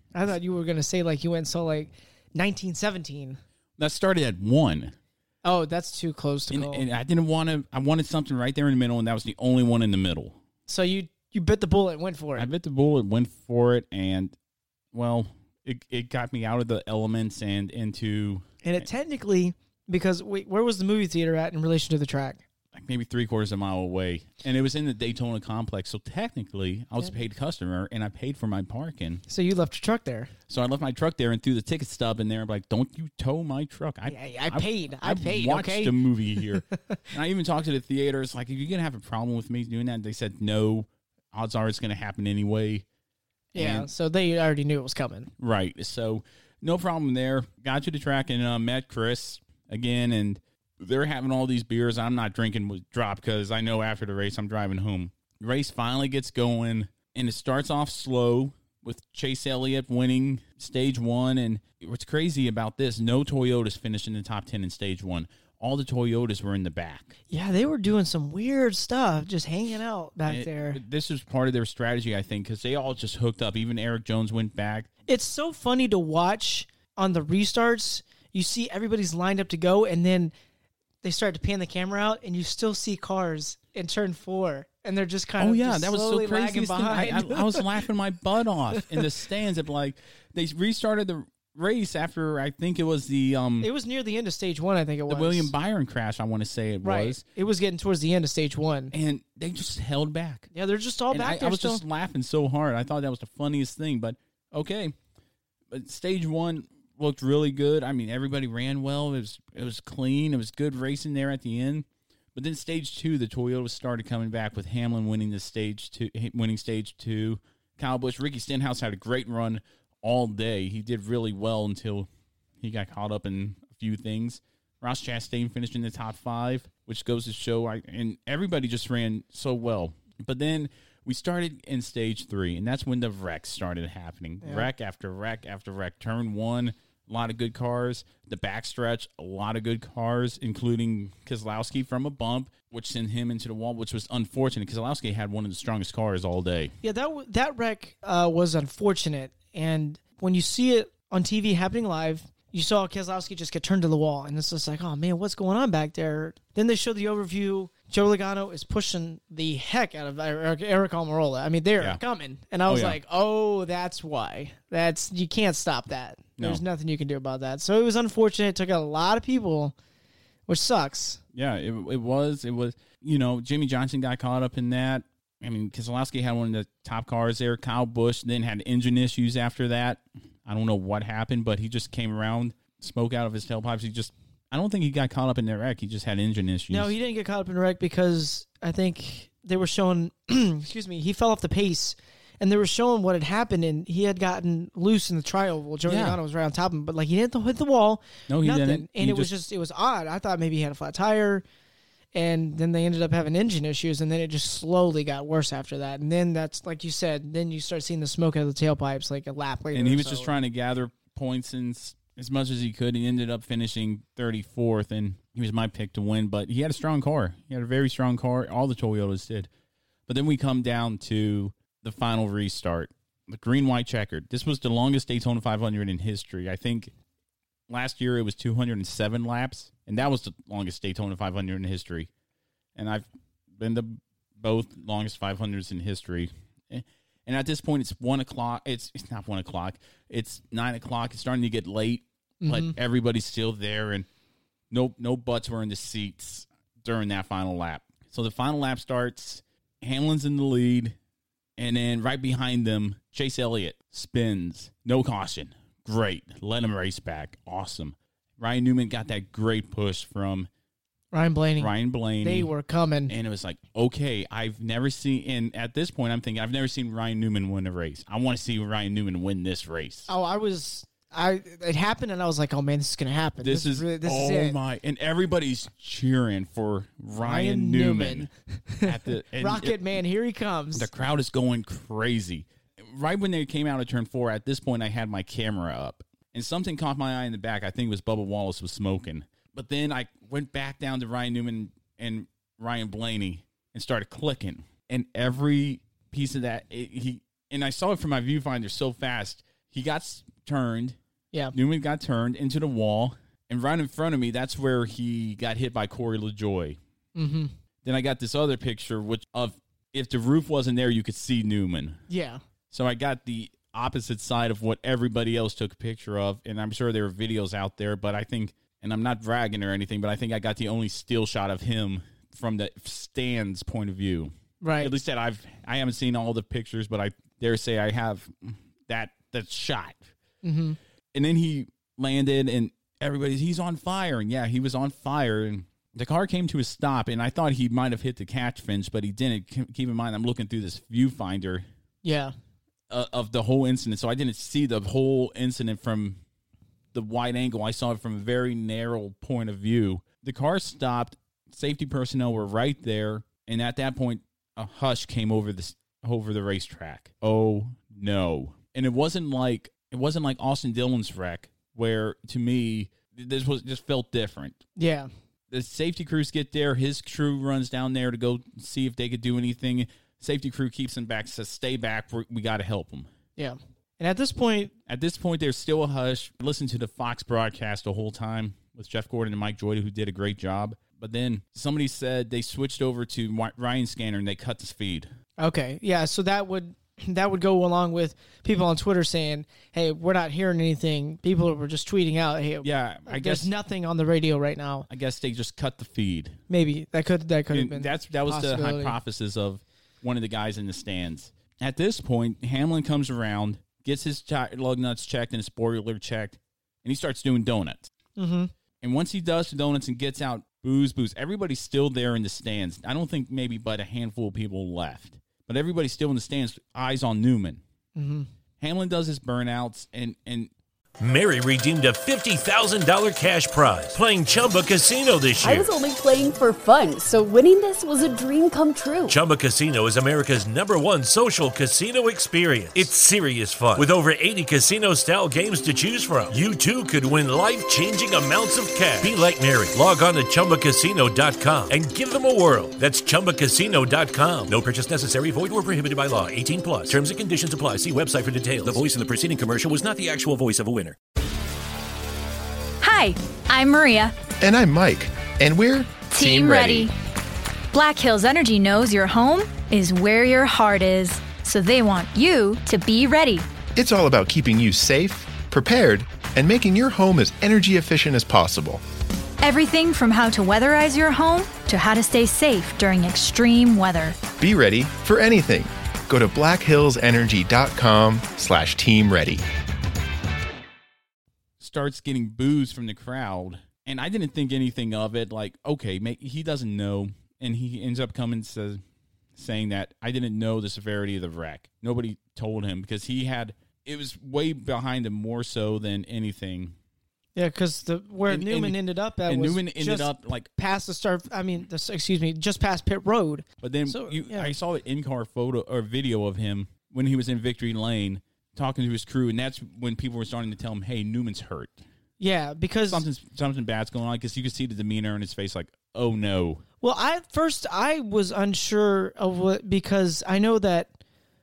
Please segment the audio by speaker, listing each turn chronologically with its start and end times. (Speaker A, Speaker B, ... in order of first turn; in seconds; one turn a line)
Speaker A: 0.1-3.4
Speaker B: 3.8-5.0
Speaker A: 5.5-6.8
Speaker B: 6.5-10.4
Speaker A: 10.7-12.5
Speaker B: 12.4-14.3
Speaker B: 14.9-18.9
Speaker A: 18.6-22.4
Speaker B: 22.7-29.2
Speaker A: 29.3-30.3
Speaker B: 30.5-42.9
Speaker A: 34.1-36.0
Speaker A: 36.7-37.0
Speaker A: 43.5-45.3
Speaker B: 43.6-43.9
Speaker B: 45.4-67.1
Speaker A: 67.3-70.8
Speaker B: 70.3-74.9
Speaker A: 75.1-80.3
Speaker A: 81.0-87.6
Speaker B: 85.4-93.7
Speaker A: 93.6-95.5
Speaker B: 95.1-97.2
Speaker A: 96.8-98.9
Speaker B: 98.9-100.5
Speaker A: 100.5-101.8
Speaker B: 101.1-105.0
Speaker B: 105.7-122.1
Speaker B: 122.6-146.7
Speaker A: 134.4-134.7
Speaker A: 146.8-169.8
Speaker B: 162.7-163.0
Speaker A: 170.5-171.2
Speaker B: 171.3-186.9
Speaker A: 186.7-201.4
Speaker B: 195.9-196.2
Speaker B: 198.3-199.3
Speaker A: 202.2-210.3
Speaker B: 209.7-219.5
Speaker B: 220.1-226.9
Speaker B: 227.7-232.1
Speaker B: 232.8-244.1
Speaker A: 242.4-242.8
Speaker B: 244.7-251.0
Speaker B: 251.6-260.5
Speaker A: 261.1-263.1
Speaker B: 261.6-262.5
Speaker B: 263.1-270.1
Speaker A: 270.1-274.6
Speaker B: 273.4-278.3
Speaker A: 277.2-280.9
Speaker B: 278.8-279.8
Speaker B: 280.7-301.0
Speaker B: 301.5-306.8
Speaker A: 307.2-307.5
Speaker B: 307.8-312.0
Speaker A: 312.1-312.4
Speaker B: 312.7-330.1
Speaker A: 324.6-324.9
Speaker A: 330.4-330.8
Speaker B: 331.1-341.7
Speaker A: 342.0-342.3
Speaker B: 342.9-346.2
Speaker B: 346.9-364.6
Speaker A: 364.8-365.1
Speaker B: 365.5-373.1
Speaker A: 373.4-374.7
Speaker B: 374.9-385.1
Speaker A: 385.4-394.9
Speaker B: 392.6-393.5
Speaker B: 394.9-396.4
Speaker A: 396.5-399.0
Speaker B: 397.5-407.9
Speaker A: 408.2-408.5
Speaker B: 408.8-417.6
Speaker A: 418.0-418.3
Speaker B: 418.6-420.5
Speaker C: 421.0-425.7
Speaker D: 425.4-429.2
Speaker C: 429.1-451.0
Speaker E: 452.8-454.2
Speaker F: 454.4-456.9
Speaker E: 456.1-456.9
Speaker E: 457.7-463.5
Speaker F: 463.8-468.8
Speaker E: 469.4-474.2
Speaker F: 474.3-479.4
Speaker B: 481.6-488.8
Speaker B: 489.4-496.8
Speaker A: 497.4-504.5
Speaker B: 498.3-500.5
Speaker B: 503.6-511.8
Speaker A: 512.2-513.0
Speaker B: 512.9-516.6
Speaker A: 516.8-520.9